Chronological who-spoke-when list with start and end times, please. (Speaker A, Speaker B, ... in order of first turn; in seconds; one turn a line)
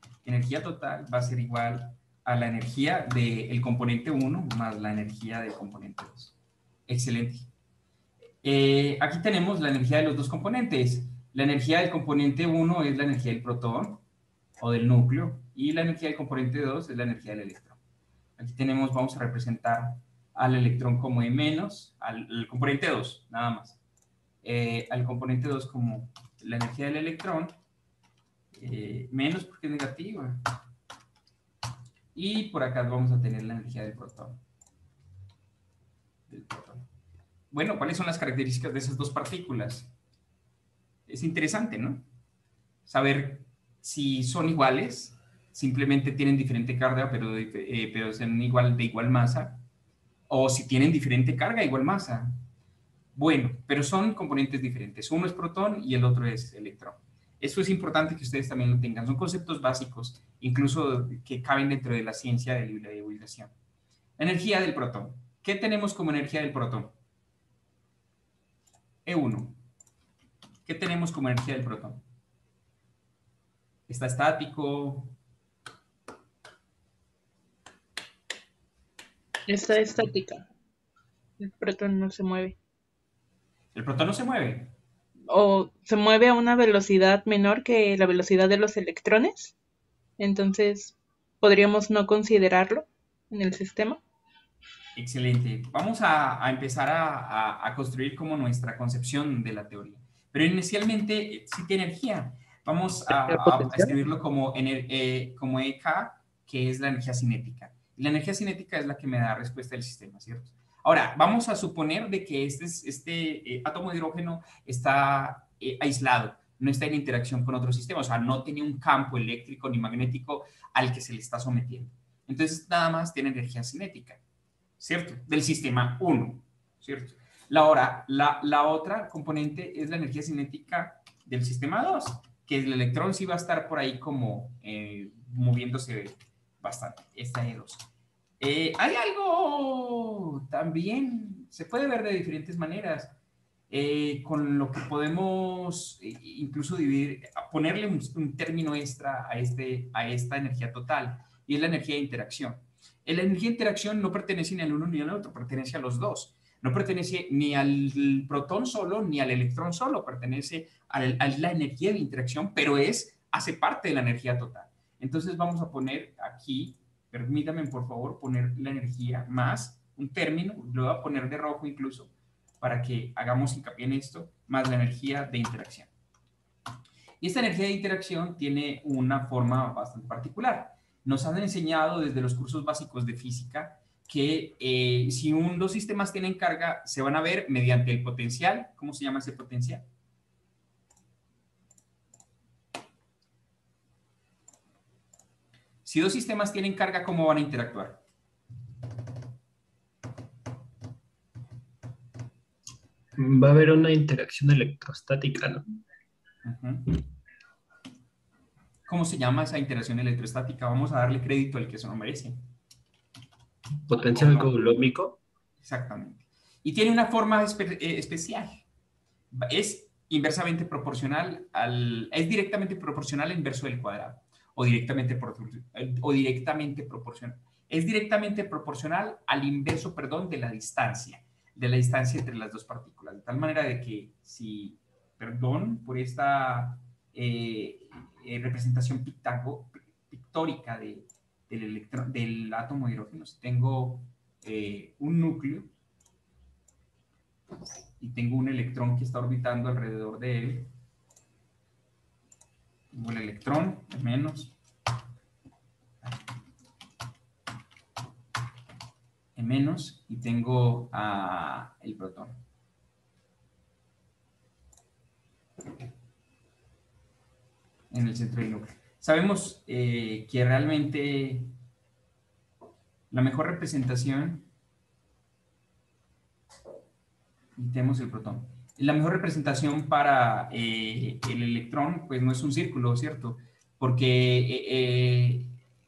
Speaker A: 0.2-6.3
Speaker A: 6.9-7.5
Speaker A: 8.4-14.0
Speaker A: 14.6-17.8
Speaker A: 18.4-23.8
Speaker A: 24.4-27.5
Speaker A: 28.5-30.4
Speaker A: 32.1-34.4
Speaker A: 36.3-36.9
Speaker A: 37.5-39.9
Speaker A: 41.1-42.0
Speaker A: 42.9-49.6
Speaker A: 50.3-52.3
Speaker A: 53.1-63.5
Speaker A: 64.2-66.9
Speaker A: 69.0-69.6
Speaker A: 70.6-72.0
Speaker A: 73.9-75.2
Speaker B: 79.5-80.4
Speaker B: 81.4-82.6
Speaker A: 83.7-84.7
Speaker B: 85.3-89.5
Speaker B: 90.2-94.0
Speaker A: 95.0-124.2
Speaker C: 103.1-103.9
Speaker A: 124.8-137.8
Speaker A: 138.4-143.1
Speaker A: 143.7-175.9
Speaker A: 177.2-189.8
Speaker A: 195.8-198.0
Speaker C: 203.2-205.7
Speaker A: 206.4-206.8
Speaker A: 208.9-212.4
Speaker C: 213.9-215.2
Speaker A: 214.1-214.7
Speaker A: 215.6-218.6
Speaker A: 219.3-245.7
Speaker A: 248.0-250.7
Speaker A: 252.9-254.5
Speaker A: 259.4-262.4
Speaker A: 267.9-271.5
Speaker A: 273.1-274.5
Speaker A: 277.6-285.5